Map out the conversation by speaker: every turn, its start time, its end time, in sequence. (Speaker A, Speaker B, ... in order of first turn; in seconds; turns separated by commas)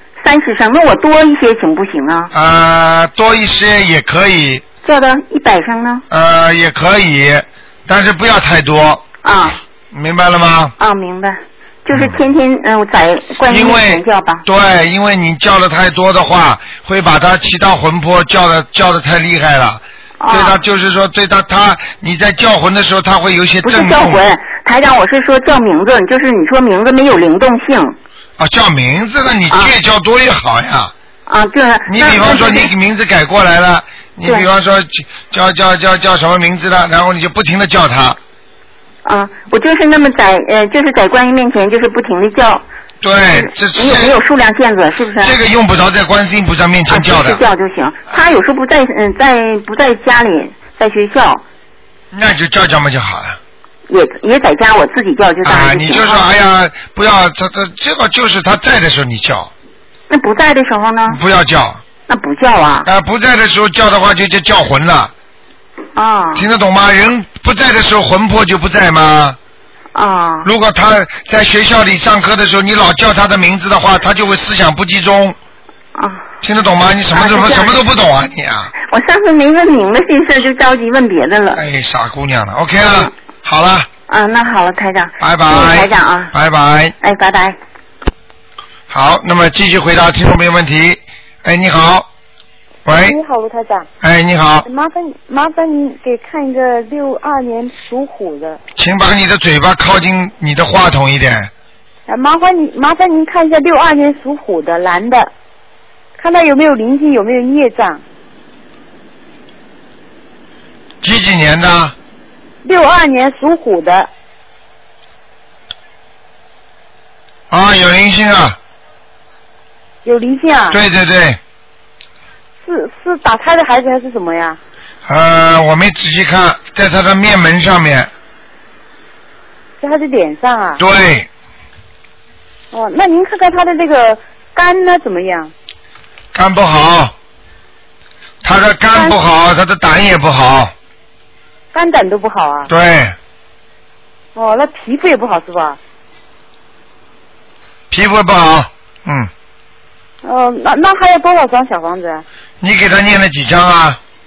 Speaker A: 0.2-2.3, Speaker B: 2.3-4.6, Speaker A: 4.8-6.0, Speaker B: 6.1-9.0, Speaker A: 9.2-9.6, Speaker B: 9.9-10.8, Speaker A: 10.8-14.4, Speaker B: 13.5-24.3, Speaker A: 20.2-20.6, Speaker A: 23.6-28.0, Speaker B: 28.4-30.9, Speaker A: 31.3-32.7, Speaker B: 31.9-38.2, Speaker A: 39.0-42.6, Speaker B: 43.0-44.2, Speaker A: 43.3-45.4, Speaker B: 45.2-47.4, Speaker A: 46.9-51.4, Speaker B: 52.1-53.4, Speaker A: 53.9-56.3, Speaker B: 55.4-59.5, Speaker A: 60.1-61.2, Speaker B: 61.1-61.8, Speaker A: 62.1-62.9, Speaker B: 62.8-65.1, Speaker A: 66.0-66.5, Speaker B: 66.3-69.4, Speaker A: 70.0-70.5, Speaker B: 70.4-75.4, Speaker A: 76.0-76.2, Speaker B: 76.4-78.7, Speaker A: 77.1-77.8, Speaker A: 78.8-81.6, Speaker B: 81.5-83.9, Speaker A: 84.1-86.3, Speaker B: 85.2-87.0, Speaker A: 87.0-87.6, Speaker B: 88.9-92.1, Speaker B: 92.9-93.2, Speaker C: 92.9-93.9, Speaker B: 94.0-94.7, Speaker C: 94.7-98.6, Speaker B: 98.8-101.5, Speaker C: 102.1-105.3, Speaker C: 106.2-108.0, Speaker B: 111.0-111.9, Speaker C: 112.6-114.1, Speaker B: 117.5-118.6, Speaker C: 120.0-120.8, Speaker B: 120.7-121.4, Speaker C: 122.6-124.6, Speaker B: 125.1-128.1, Speaker C: 129.8-130.8, Speaker B: 130.8-131.3, Speaker C: 132.7-135.5, Speaker B: 136.3-137.1, Speaker B: 138.4-140.7, Speaker C: 141.7-142.7, Speaker B: 142.7-143.2, Speaker C: 144.3-145.8, Speaker B: 147.9-149.3, Speaker C: 150.2-152.2, Speaker B: 152.6-154.0